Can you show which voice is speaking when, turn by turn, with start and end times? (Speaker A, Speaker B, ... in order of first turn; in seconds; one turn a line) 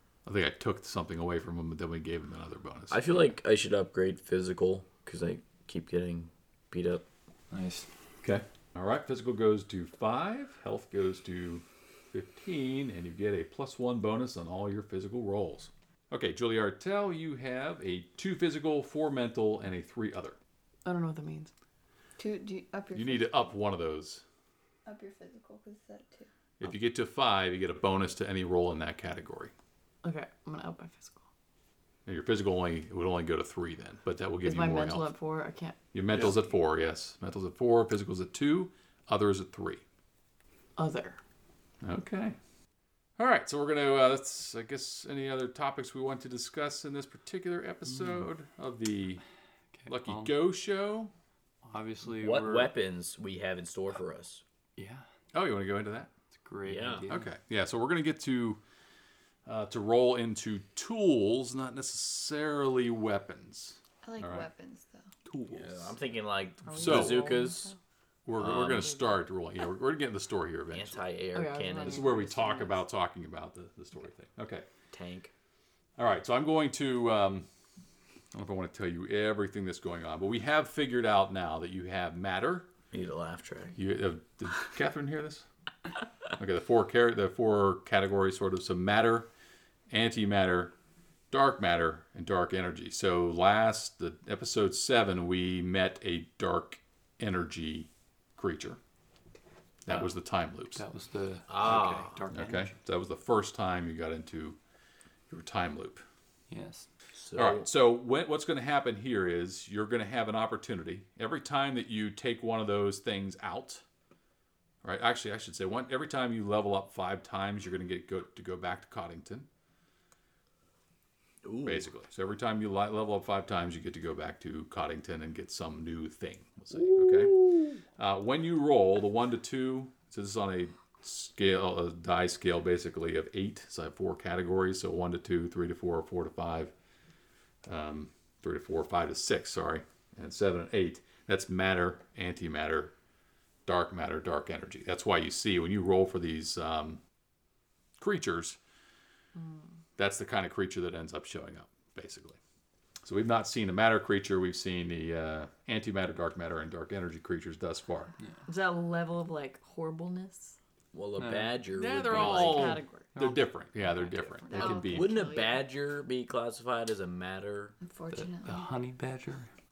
Speaker A: 0.2-3.0
Speaker B: 2.9-7.0
Speaker C: 7.5-7.9
Speaker A: 8.2-20.4
Speaker D: 20.8-21.5
Speaker E: 22.2-23.4
Speaker A: 22.9-24.2
Speaker E: 24.9-26.3
Speaker A: 26.6-29.5
Speaker D: 30.0-31.2
Speaker A: 32.0-35.1
Speaker D: 34.4-35.8
Speaker A: 35.9-39.8
Speaker D: 40.8-41.2
Speaker A: 41.8-42.4
Speaker A: 43.2-49.2
Speaker C: 47.9-48.2
Speaker C: 49.8-50.4
Speaker A: 49.9-51.1
Speaker C: 51.6-52.7
Speaker B: 52.1-54.4
Speaker C: 54.8-55.0
Speaker A: 55.3-56.1
Speaker C: 56.3-57.3
Speaker B: 56.6-57.1
Speaker A: 57.1-58.6
Speaker A: 59.5-64.5
Speaker E: 64.0-65.1
Speaker A: 65.3-65.9
Speaker B: 65.5-67.7
Speaker D: 66.6-67.8
Speaker A: 66.8-67.3
Speaker A: 68.2-71.0
Speaker B: 68.4-68.9
Speaker B: 70.7-72.6
Speaker D: 71.3-72.5
Speaker A: 71.8-74.7
Speaker B: 74.9-75.3
Speaker A: 76.0-77.5
Speaker A: 78.3-82.7
Speaker B: 82.9-83.8
Speaker A: 83.8-85.5
Speaker A: 86.3-89.3
Speaker A: 89.9-90.7
Speaker A: 91.3-98.8
Speaker A: 99.8-100.8
Speaker C: 99.9-100.1
Speaker C: 100.7-102.7
Speaker B: 101.5-102.2
Speaker A: 102.3-104.6
Speaker A: 105.3-106.0
Speaker C: 106.5-106.9
Speaker B: 107.1-107.7
Speaker A: 107.3-113.8
Speaker A: 114.8-119.5
Speaker B: 121.4-121.9
Speaker A: 121.7-127.4
Speaker B: 126.8-127.7
Speaker A: 128.0-136.7
Speaker A: 137.7-142.9
Speaker A: 143.7-147.0
Speaker A: 148.0-148.6
Speaker D: 149.4-149.8
Speaker A: 150.0-152.4
Speaker A: 153.0-158.1
Speaker C: 158.2-158.4
Speaker D: 158.5-160.6
Speaker B: 160.9-162.8
Speaker C: 161.2-161.6
Speaker A: 161.7-165.1
Speaker D: 162.1-165.5
Speaker C: 163.1-163.7
Speaker E: 164.5-165.2
Speaker B: 164.5-167.8
Speaker E: 167.8-168.7
Speaker C: 168.1-169.5